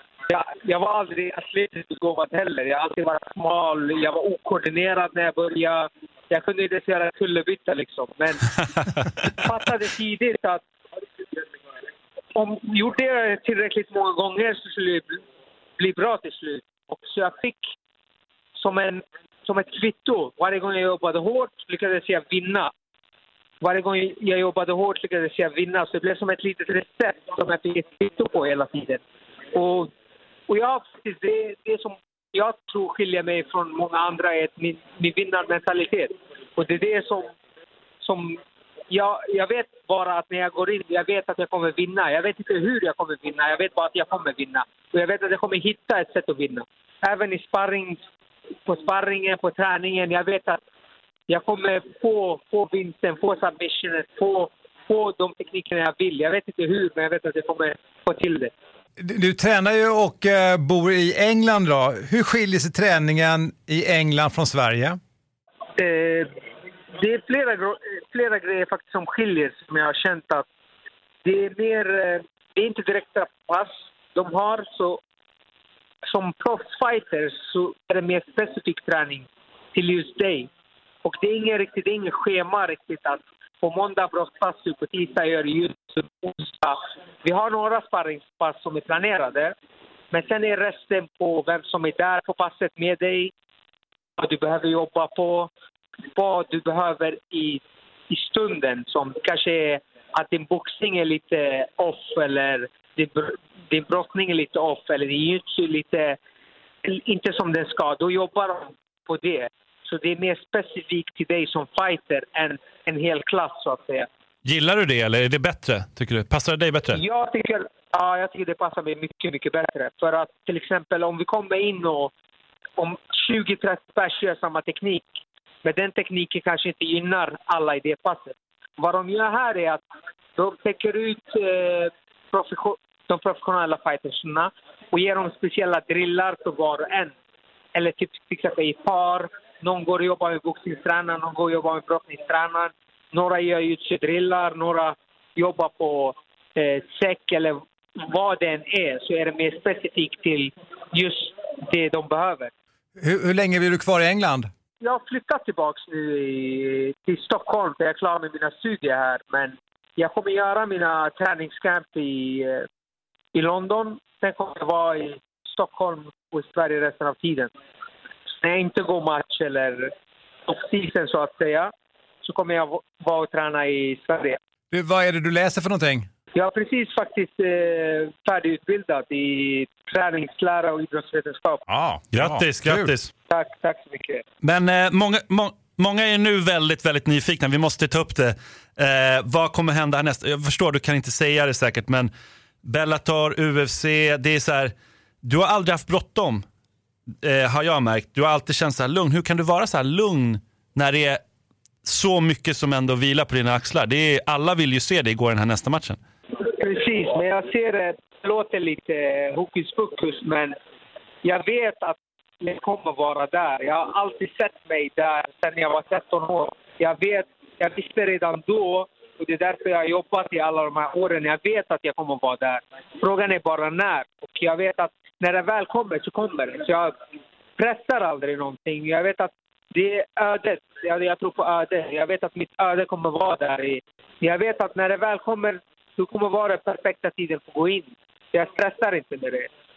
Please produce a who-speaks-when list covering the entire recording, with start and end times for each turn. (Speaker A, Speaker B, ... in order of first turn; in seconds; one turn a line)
Speaker A: 0.3-8.6
Speaker A: 9.3-10.6
Speaker A: 12.3-15.2
Speaker A: 15.8-17.6
Speaker A: 18.6-22.7
Speaker A: 23.6-29.0
Speaker A: 29.5-29.9
Speaker A: 30.5-37.3
Speaker A: 38.0-38.4
Speaker A: 38.9-48.0
Speaker A: 48.6-50.6
Speaker A: 51.3-58.5
Speaker B: 59.0-65.0
Speaker A: 65.8-66.3
Speaker A: 67.0-70.5
Speaker A: 71.2-75.0
Speaker A: 76.1-80.5
Speaker A: 81.0-89.5
Speaker A: 90.1-93.3
Speaker A: 94.2-95.5
Speaker A: 96.1-106.2
Speaker A: 106.8-114.1
Speaker C: 114.4-117.0
Speaker A: 116.9-122.1
Speaker A: 122.8-125.1
Speaker A: 125.6-129.8
Speaker A: 130.4-137.1
Speaker A: 137.7-152.5
Speaker B: 153.0-154.5
Speaker A: 154.8-162.7
Speaker A: 163.3-167.5
Speaker A: 168.4-169.9
Speaker A: 170.5-171.7
Speaker A: 172.2-174.4
Speaker B: 174.7-176.1
Speaker A: 176.3-181.6
Speaker B: 181.7-182.9
Speaker C: 182.1-183.1
Speaker A: 183.3-184.2
Speaker C: 184.4-192.1
Speaker C: 192.6-196.4
Speaker C: 197.2-201.2
Speaker C: 201.8-206.0
Speaker A: 206.4-210.6
Speaker A: 211.2-226.9
Speaker A: 227.6-239.5